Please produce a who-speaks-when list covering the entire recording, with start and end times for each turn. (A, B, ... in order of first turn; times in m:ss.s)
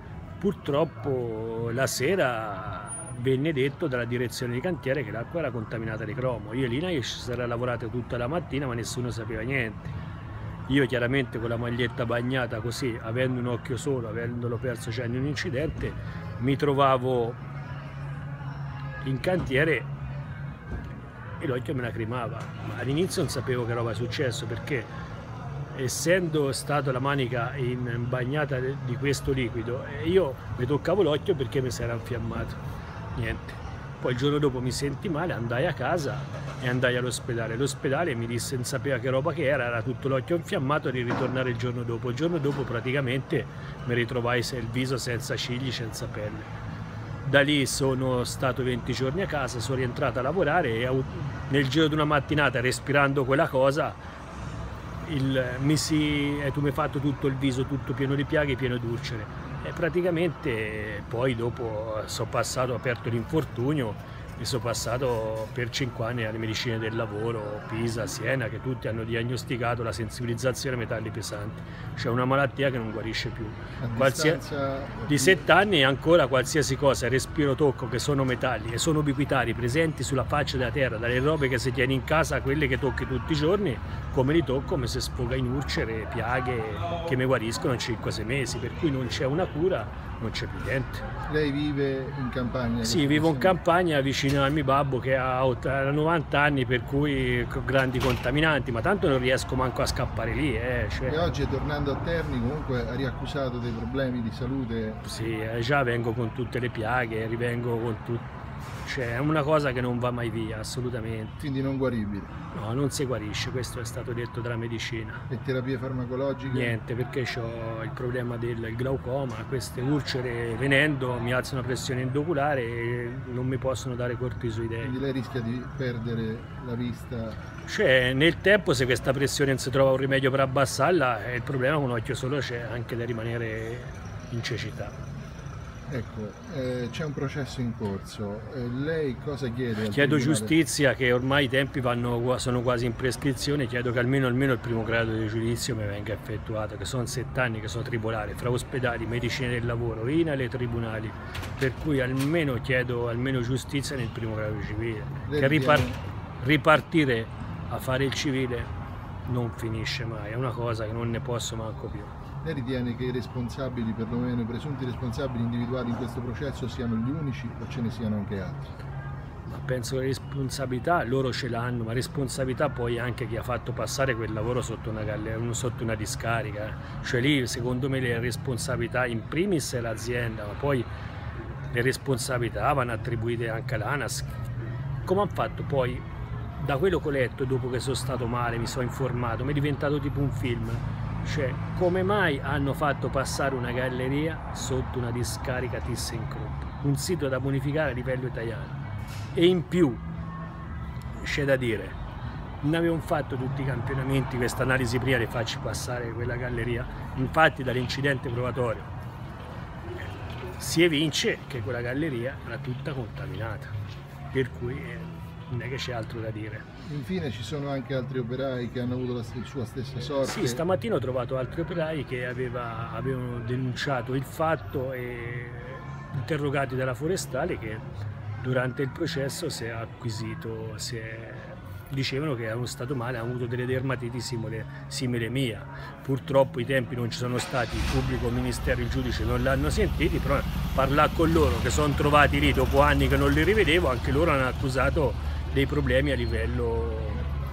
0:00.4-0:10.0 A
0:10.7-0:17.4 A
0:19.0-0:19.9 A
0:21.4-0:24.9 A
0:25.7-0:32.6 A
0:33.1-0:46.5 A
0:47.2-0:54.0 A
0:55.0-1:14.4 A
1:13.8-1:15.5 B
1:15.1-1:31.0 A
1:31.2-1:33.6 B
1:32.8-1:41.3 A
1:41.0-1:45.0 B
1:45.0-1:48.2 A
1:48.8-1:51.4 A
1:51.4-1:52.3 B
1:52.5-1:55.2 A
1:55.3-1:56.8 B
1:56.5-2:05.0 A
2:04.8-2:07.4 B
2:07.7-2:15.0 A
2:15.9-2:20.5 B
2:19.9-2:38.7 A
2:35.2-2:36.0 B
2:39.2-2:42.1 A
2:42.4-2:48.8 B
2:49.5-3:00.9 A
3:01.7-3:04.4 A
3:05.0-3:06.0 A
3:06.6-3:18.8 A
3:19.3-3:20.0 A
3:21.2-3:22.0 A
3:22.6-3:28.9 A
3:30.5-3:33.7 A
3:34.3-3:36.7 A
3:36.8-3:40.6 B
3:40.2-3:47.8 A
3:48.4-4:07.2 A